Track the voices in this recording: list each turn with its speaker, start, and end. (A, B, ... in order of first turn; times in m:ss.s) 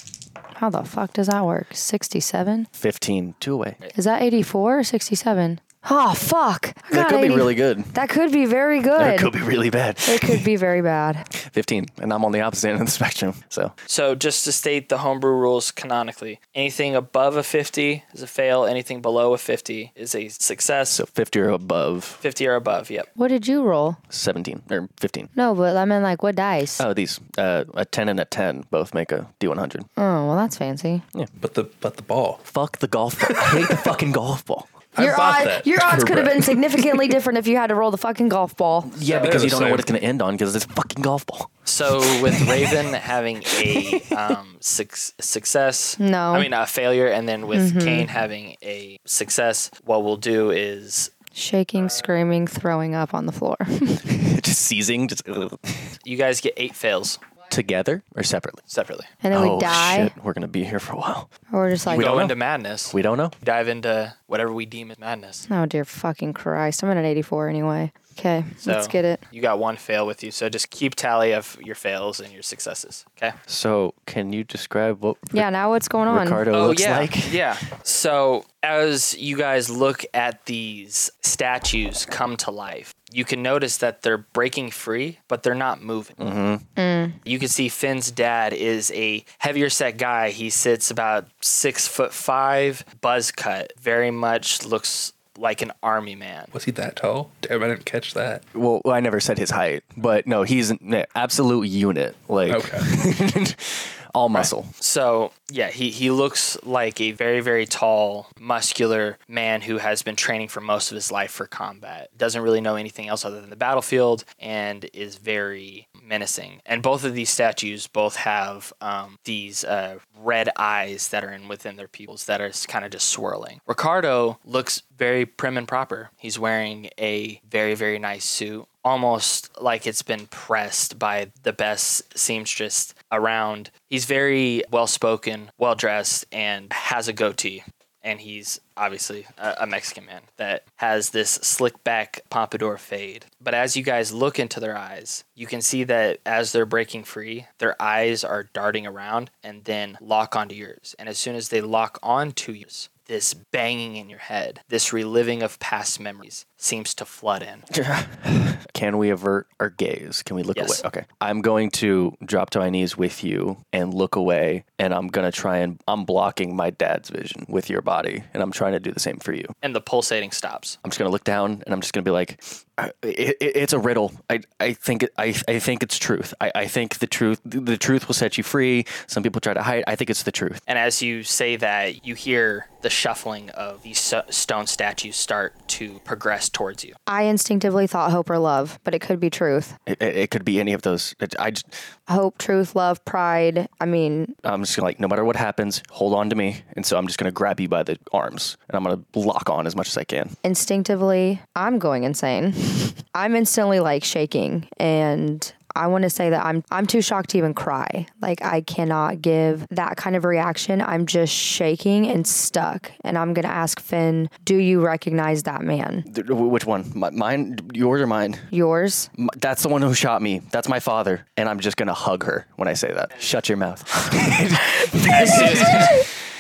0:00.6-0:02.7 A
0:02.8-0:03.8 B
0:03.9-0:09.3 A
0:06.9-0:07.9 B
0:09.0-0:10.4 B
0:10.1-0:11.3 A
0:11.4-0:13.7 B
0:13.9-0:21.0 C
0:20.9-0:22.2 B
0:22.2-0:23.1 C
0:23.2-0:24.0 A
0:24.1-0:25.3 B
0:25.4-0:26.8 A
0:26.8-0:29.9 B
0:30.0-0:31.0 A
0:31.4-0:32.4 D
0:32.5-0:34.7 B
0:33.3-0:33.8 D
0:34.9-0:37.1 D
0:35.0-0:38.9 A
0:38.8-0:41.5 B
0:39.0-0:39.4 C
0:39.2-0:39.9 D
0:41.7-0:51.1 C
0:43.9-0:44.1 B
0:46.0-0:46.5 A
0:47.5-0:48.1 A
0:51.4-0:54.1 A
0:54.1-0:55.9 B
0:56.0-0:57.2 C
0:57.5-0:58.6 B
0:58.7-0:59.1 C
0:59.2-1:00.1 A
0:59.3-1:01.3 B
1:01.5-1:02.1 A
1:01.9-1:02.4 B
1:01.9-1:05.4 C
1:02.9-1:03.3 B
1:05.5-1:09.2 A
1:08.6-1:13.4 C
1:13.5-1:15.5 B
1:15.3-1:16.4 A
1:16.1-1:17.5 B
1:16.5-1:26.2 C
1:26.2-1:26.7 B
1:26.8-1:27.2 A
1:27.2-1:36.5 C
1:36.5-1:38.4 D
1:38.5-1:44.7 B
1:42.5-1:42.9 D
1:44.3-2:37.6 C
2:37.7-2:49.6 B
2:40.6-2:40.8 C
2:49.6-2:50.8 C
2:50.8-3:00.6 B
3:00.7-3:07.0 C
3:07.1-3:09.8 A
3:09.9-3:11.8 B
3:12.1-3:14.4 A
3:14.4-3:20.4 B
3:20.4-3:36.1 A
3:36.1-3:38.5 B
3:38.5-3:39.1 A
3:39.2-3:46.1 B
3:45.1-3:46.0 C